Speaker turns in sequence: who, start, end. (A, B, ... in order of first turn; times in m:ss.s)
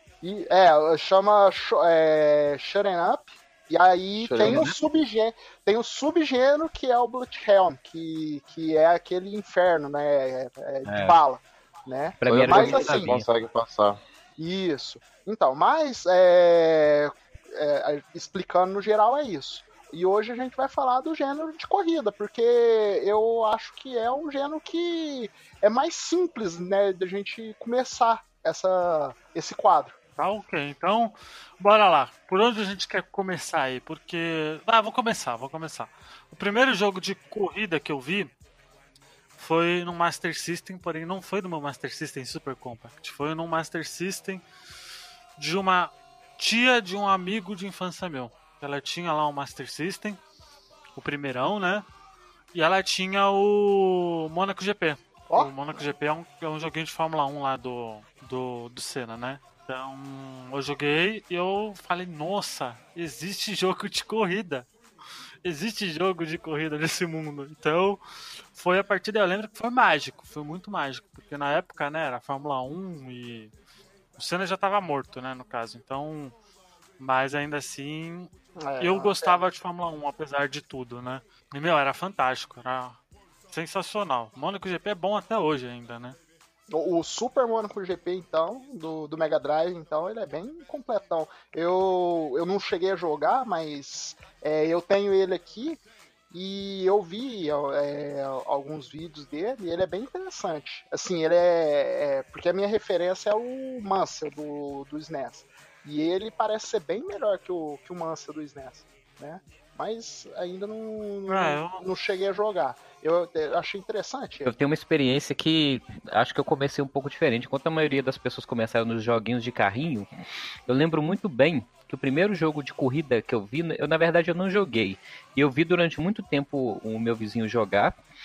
0:00.2-0:13.1 A
0:04.2-0:04.7 B
0:04.4-0:04.8 C
0:10.8-0:11.2 C
0:12.2-0:13.3 C
0:12.3-0:14.0 B
0:14.4-0:30.0 A
0:30.2-0:38.3 D
0:39.4-0:44.4 D
0:45.4-0:50.2 D
0:51.0-0:51.9 D
0:52.5-1:04.7 D
1:05.4-1:08.0 D
1:08.5-1:13.5 D
1:14.2-1:16.4 D
1:17.0-1:23.0 D
1:18.6-1:19.5 A
1:23.5-1:26.2 D
1:26.7-1:54.5 A
1:51.3-1:51.9 D
1:54.4-2:00.1 C
2:00.7-2:08.0 C